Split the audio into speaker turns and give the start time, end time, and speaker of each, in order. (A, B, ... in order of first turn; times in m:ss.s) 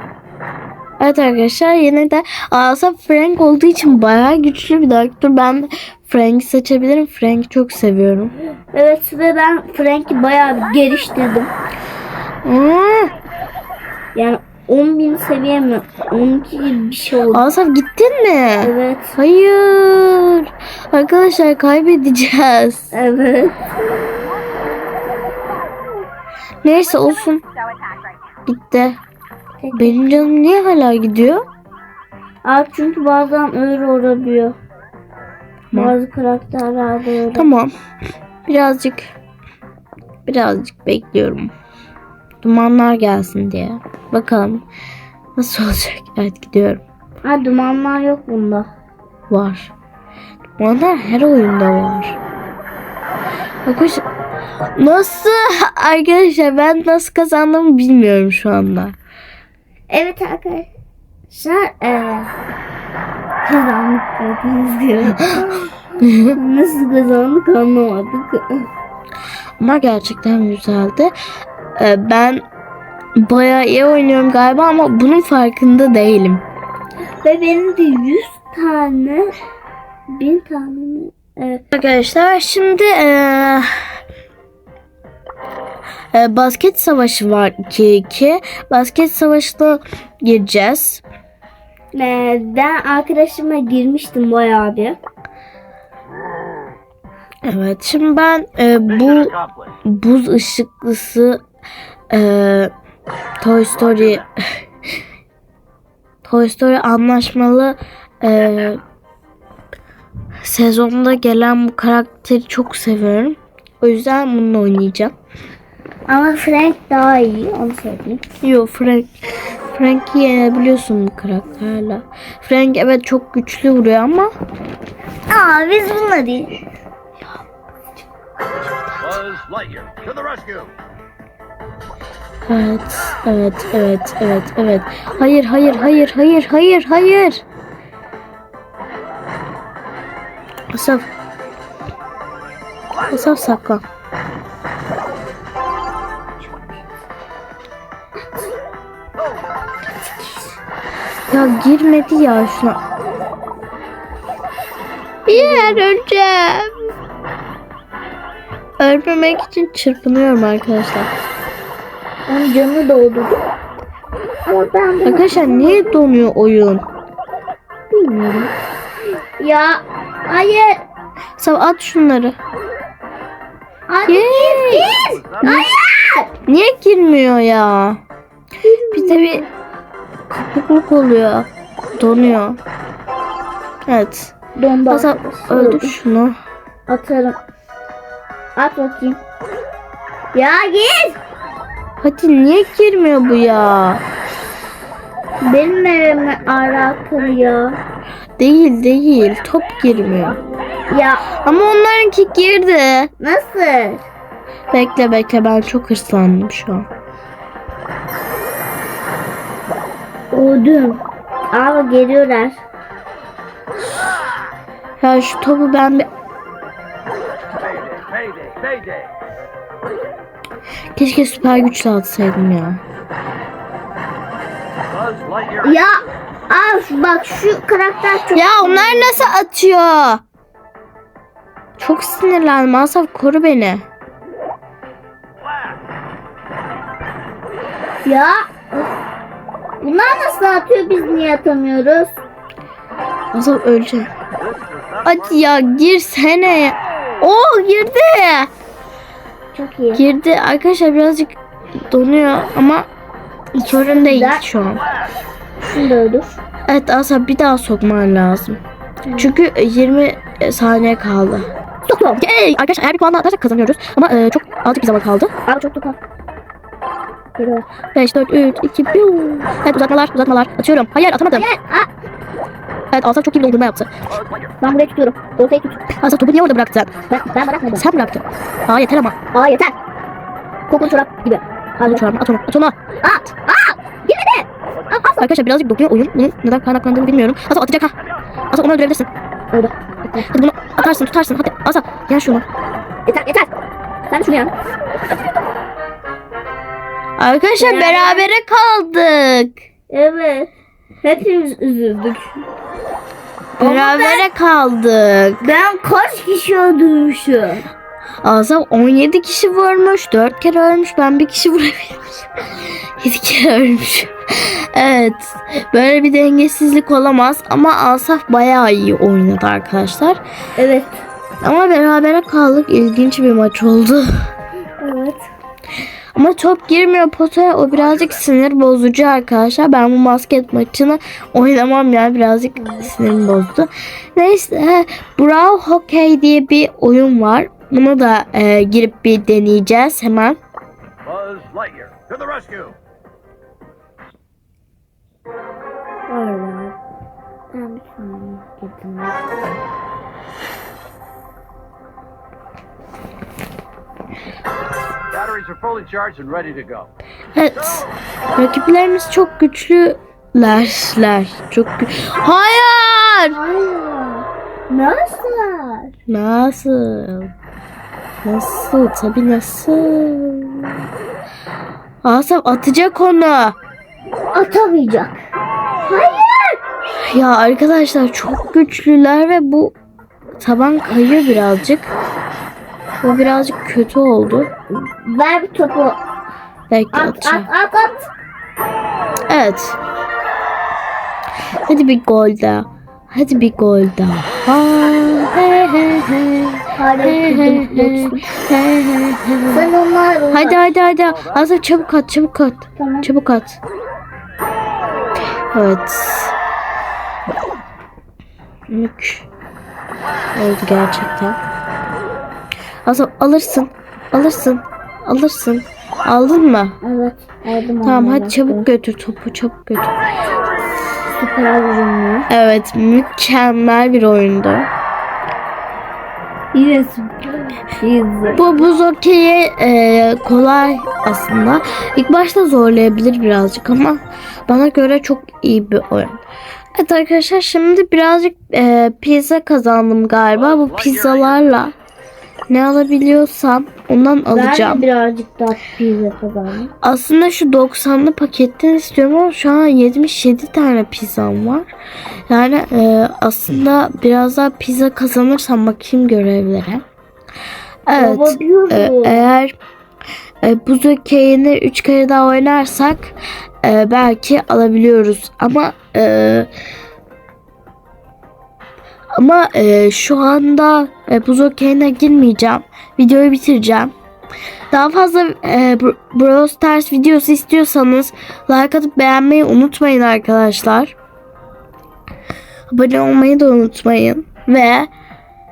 0:01.0-0:08.3 A
0:08.7-0:11.5 B
0:12.4-0:13.1 A
0:14.1-0:17.5 B
0:17.3-0:22.9 A
0:18.6-0:19.2 B
0:22.9-0:23.7 B
0:26.6-0:27.4 A
0:28.4-0:29.0 A
0:29.6-0:30.2 B
0:29.7-0:31.4 A
0:32.4-0:34.6 B
0:35.7-0:37.5 B
0:37.3-0:37.7 A
0:38.4-0:39.1 A
0:40.2-0:41.5 A
0:42.4-0:44.6 A
0:45.4-0:46.8 A
0:47.2-0:48.7 B
0:49.3-0:49.7 A
0:50.6-0:52.2 A
0:53.6-0:54.0 A
0:54.8-0:59.0 A
0:59.9-1:00.7 B
1:01.3-1:02.3 B
1:03.4-1:08.7 B
1:06.0-1:06.4 A
1:09.6-1:11.1 A
1:11.8-1:12.4 A
1:13.2-1:16.4 A
1:17.2-1:19.3 B
1:20.1-1:21.6 B
1:21.7-1:23.7 A
1:26.1-1:31.0 A
1:31.9-1:35.0 B
1:37.4-1:41.4 A
1:42.1-1:42.7 A
1:43.4-1:44.6 A
1:46.2-1:48.8 A
1:50.4-1:55.1 A
1:56.1-1:58.2 B
1:58.4-1:59.1 A
1:59.7-2:04.3 A
2:05.3-2:06.6 B
2:09.0-2:10.7 C
2:12.5-2:17.4 A
2:20.7-2:21.1 A
2:23.1-2:23.8 A
2:30.2-2:30.4 B
2:31.3-2:32.8 A
2:35.2-2:36.9 A
2:35.3-2:35.9 B
2:38.8-2:41.1 A
2:42.3-2:43.4 B
2:44.4-2:46.0 B
2:45.0-2:46.8 A
2:47.9-2:48.5 B
2:49.4-2:50.8 B
2:51.4-2:52.4 A
2:53.9-2:56.3 B
2:54.0-2:55.7 A
2:56.4-2:58.0 A
2:58.6-2:59.5 B
2:58.9-2:59.4 A
3:00.3-3:02.6 A
3:03.9-3:04.4 A
3:04.6-3:05.9 B
3:04.9-3:06.4 A
3:06.9-3:07.4 B
3:08.6-3:09.2 B
3:10.3-3:11.2 B
3:12.0-3:14.0 A
3:15.4-3:17.8 B
3:18.4-3:20.4 A
3:20.9-3:21.4 B
3:21.4-3:23.1 A
3:23.2-3:24.0 B
3:24.7-3:26.9 A
3:30.3-3:32.6 B
3:35.0-3:36.1 A
3:37.6-3:39.1 C
3:41.0-3:42.8 A
3:44.9-3:45.6 C
3:45.6-3:46.0 B
3:46.5-3:49.3 B
3:48.3-3:50.2 A
3:51.8-3:53.8 A
3:58.0-3:58.9 B
3:59.8-4:02.2 B
4:03.3-4:04.1 A
4:04.4-4:05.0 C
4:05.0-4:08.5 A
4:09.5-4:10.0 B
4:09.9-4:11.4 A
4:11.9-4:12.9 A
4:13.5-4:14.8 A
4:13.9-4:14.4 B
4:15.6-4:16.4 B
4:16.7-4:18.6 A
4:19.1-4:19.3 B
4:19.2-4:21.5 A
4:21.9-4:22.2 B
4:22.2-4:25.3 A
4:25.4-4:26.0 B
4:27.4-4:27.6 B
4:27.9-4:31.4 A
4:31.3-4:31.9 B
4:32.9-4:33.9 A
4:34.6-4:35.9 B
4:36.0-4:37.0 A
4:37.1-4:37.9 B
4:37.7-4:39.2 A
4:39.3-4:39.7 B
4:40.7-4:42.0 B
4:41.8-4:42.8 A
4:43.0-4:45.3 B
4:45.2-4:47.9 A
4:48.5-4:49.1 A
4:49.5-4:50.2 B
4:50.1-4:52.4 A
4:53.0-4:53.5 B
4:54.1-4:54.5 B
4:57.2-4:59.6 A
4:57.6-4:58.2 B
4:59.9-5:00.5 B
5:01.0-5:02.4 B
5:03.6-5:04.2 B
5:03.6-5:05.4 A
5:05.4-5:07.6 B
5:08.2-5:20.2 A
5:20.6-5:21.0 B
5:21.4-5:24.3 A
5:24.8-5:25.3 B
5:26.1-5:40.4 A
5:32.6-5:32.9 B
5:41.0-5:42.7 C
5:46.1-5:46.8 B
5:47.5-5:49.2 B
5:55.1-5:56.9 C
5:57.3-6:03.4 A
6:03.3-6:05.9 B
6:06.1-6:07.3 A
6:08.2-6:10.8 A
6:12.0-6:13.6 A
6:14.3-6:15.2 B
6:15.8-6:16.6 B
6:17.0-6:19.8 A
6:20.4-6:21.9 A
6:23.0-6:24.5 A
6:24.7-6:26.0 B
6:26.7-6:27.5 A
6:26.9-6:28.1 B
6:29.3-6:29.8 A
6:31.7-6:39.7 A
6:36.8-6:38.3 B
6:39.5-6:40.6 B
6:40.3-6:43.6 A
6:42.8-6:43.1 B
6:45.5-6:46.3 A
6:48.7-6:49.3 A
6:50.4-6:51.4 A
6:52.8-6:56.8 A
6:56.8-6:58.6 B
6:57.8-6:59.9 A
7:01.2-7:02.3 B
7:02.3-7:04.7 A
7:06.5-7:08.6 B
7:08.3-7:16.2 A
7:16.8-7:21.7 A
7:20.5-7:21.2 C
7:22.5-7:24.8 A
7:24.3-7:26.7 B
7:26.8-7:31.6 A
7:32.3-7:36.8 A
7:37.9-7:39.5 A
7:37.9-7:39.3 B
7:40.4-7:46.5 A
7:49.2-7:53.9 A
7:54.7-8:00.9 A
8:02.7-8:04.9 A